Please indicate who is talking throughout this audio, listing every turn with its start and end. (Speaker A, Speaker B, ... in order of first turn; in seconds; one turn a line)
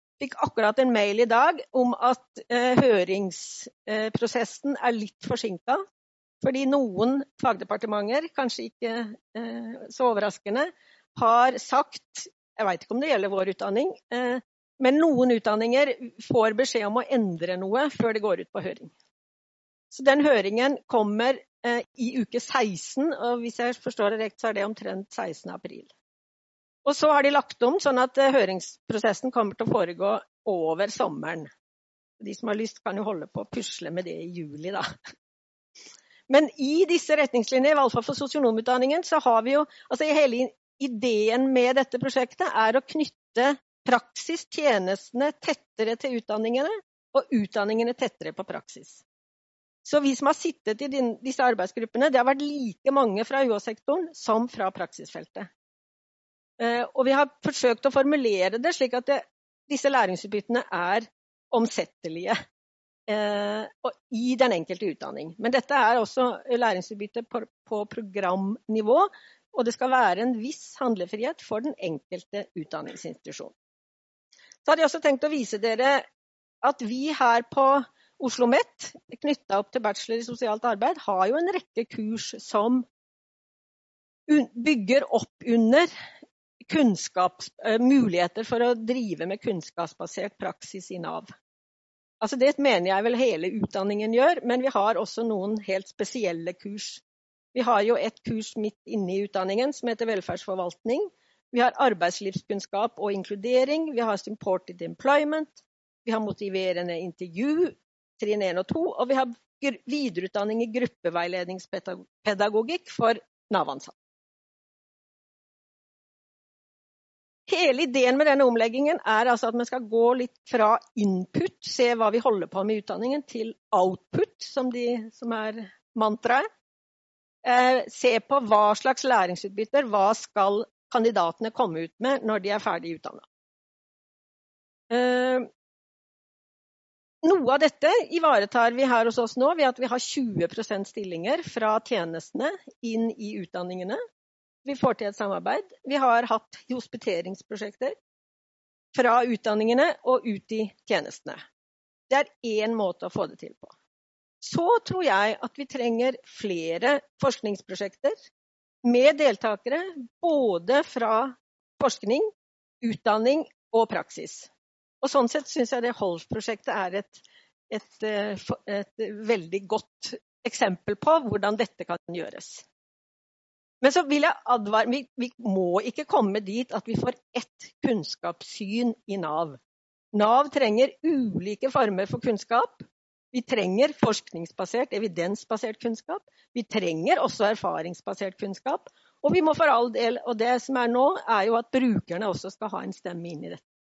Speaker A: 0.2-5.8
Speaker A: 6.4-18.9
Speaker A: 19.9-25.9
Speaker A: 26.8-31.5
Speaker A: 32.2-35.0
Speaker A: 36.3-49.0
Speaker A: 49.8-55.5
Speaker A: 56.6-62.4
Speaker A: 63.1-73.5
Speaker A: 74.6-76.0
Speaker A: 76.6-82.8
Speaker A: 84.3-85.9
Speaker A: 86.6-91.3
Speaker A: 92.2-97.0
Speaker A: 97.5-113.9
Speaker A: 117.5-126.5
Speaker A: 127.4-133.2
Speaker A: 134.9-135.5
Speaker A: 137.2-144.0
Speaker A: 144.6-147.9
Speaker A: 148.9-151.4
Speaker A: 152.1-153.7
Speaker A: 154.4-158.2
Speaker A: 158.8-162.3
Speaker A: 162.8-164.5
Speaker A: 165.0-172.6
Speaker A: 173.8-179.6
Speaker A: 180.1-193.6